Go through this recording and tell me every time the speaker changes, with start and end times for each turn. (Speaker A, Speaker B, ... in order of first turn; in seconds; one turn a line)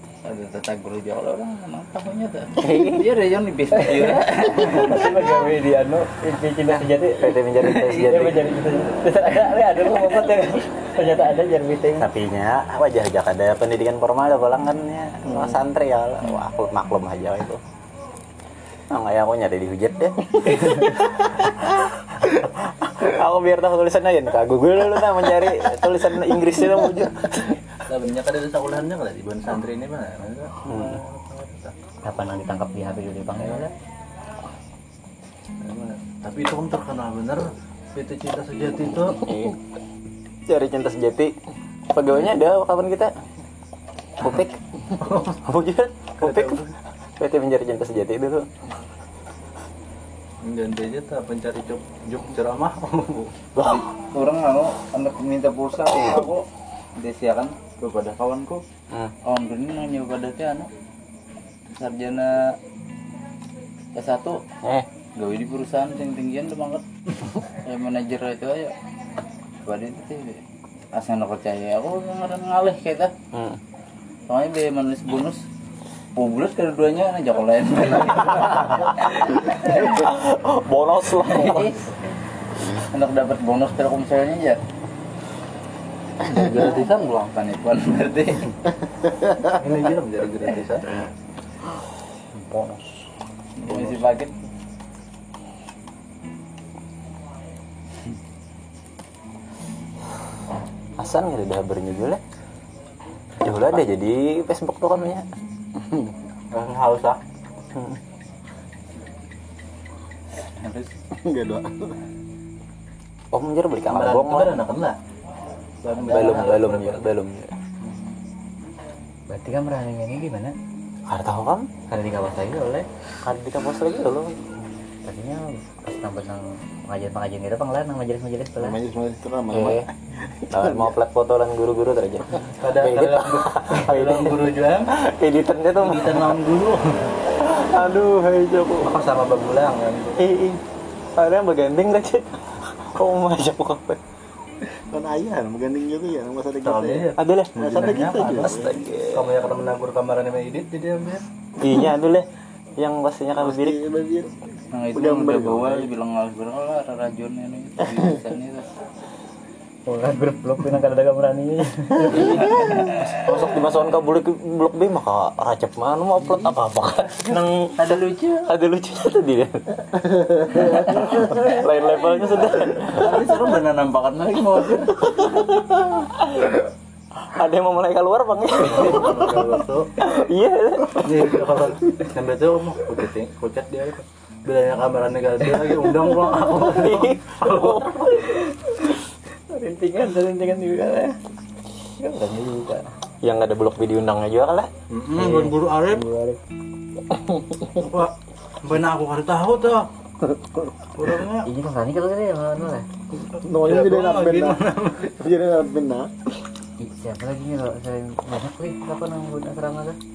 Speaker A: 0.2-5.5
Speaker B: 2.6-3.1
Speaker C: 3.8-12.1
Speaker B: 7.0-8.4
Speaker A: 7.6-8.2
Speaker B: 11.9-17.6
Speaker B: 18.9-27.6
Speaker D: 27.9-31.7
Speaker B: 30.6-31.0
Speaker C: 32.0-33.7
Speaker D: 35.6-39.3
Speaker B: 39.2-39.5
Speaker B: 40.5-41.3
Speaker B: 41.9-43.1
Speaker B: 44.2-46.7
Speaker D: 45.0-45.3
Speaker D: 46.2-46.7
Speaker B: 47.2-48.5
Speaker D: 50.4-53.4
Speaker B: 53.5-53.8
Speaker A: 53.5-58.6
Speaker A: 59.2-60.7
Speaker A: 61.7-62.6
Speaker A: 63.9-64.4
Speaker B: 64.6-64.9
Speaker A: 65.2-68.7
Speaker A: 69.6-70.4
Speaker A: 70.9-73.1
Speaker B: 73.3-73.6
Speaker A: 74.3-75.4
Speaker A: 76.2-80.0
Speaker B: 79.8-81.8
Speaker A: 81.2-82.0
Speaker A: 82.7-84.6
Speaker A: 86.2-88.6
Speaker D: 89.4-91.0
Speaker D: 92.5-92.8
Speaker A: 93.6-94.3
Speaker D: 93.6-94.1
Speaker B: 101.0-102.2
Speaker B: 103.4-105.2
Speaker E: 105.8-106.1
Speaker D: 106.5-107.2
Speaker B: 107.7-108.0
Speaker A: 110.5-110.9
Speaker E: 111.1-112.0
Speaker B: 113.3-114.6
Speaker D: 113.9-115.0
Speaker D: 115.8-117.1
Speaker B: 116.0-117.5
Speaker C: 119.3-120.5
Speaker B: 121.1-121.7
Speaker C: 121.9-122.9
Speaker B: 123.2-124.3
Speaker C: 125.0-128.8
Speaker E: 128.6-129.9
Speaker B: 129.5-129.8
Speaker E: 130.5-130.9
Speaker B: 130.5-136.3
Speaker D: 132.6-134.9
Speaker D: 135.8-137.1
Speaker B: 137.2-139.0
Speaker D: 138.8-140.2
Speaker B: 140.2-140.6
Speaker B: 141.2-144.0
Speaker E: 144.9-148.7
Speaker D: 146.6-151.2
Speaker B: 147.2-147.5
Speaker B: 148.3-149.5
Speaker B: 151.6-152.3
Speaker B: 152.8-153.8
Speaker E: 153.4-154.4
Speaker A: 154.7-158.7
Speaker E: 154.9-155.9
Speaker C: 159.9-162.7
Speaker A: 162.1-163.1
Speaker B: 163.1-169.9
Speaker A: 167.8-168.4
Speaker E: 170.1-170.8
Speaker B: 170.6-173.3
Speaker A: 170.6-171.5
Speaker A: 172.9-175.2
Speaker B: 175.2-176.6
Speaker B: 177.2-181.7
Speaker D: 178.6-179.9
Speaker D: 181.0-188.1
Speaker B: 186.5-188.4
Speaker C: 188.3-188.5
Speaker C: 189.5-191.2
Speaker C: 192.0-192.8
Speaker B: 193.2-194.7
Speaker D: 194.9-196.1
Speaker C: 195.1-196.4
Speaker D: 197.6-199.9
Speaker D: 200.9-201.5
Speaker C: 201.4-202.8
Speaker E: 203.4-206.1
Speaker D: 203.6-205.1
Speaker C: 206.8-210.0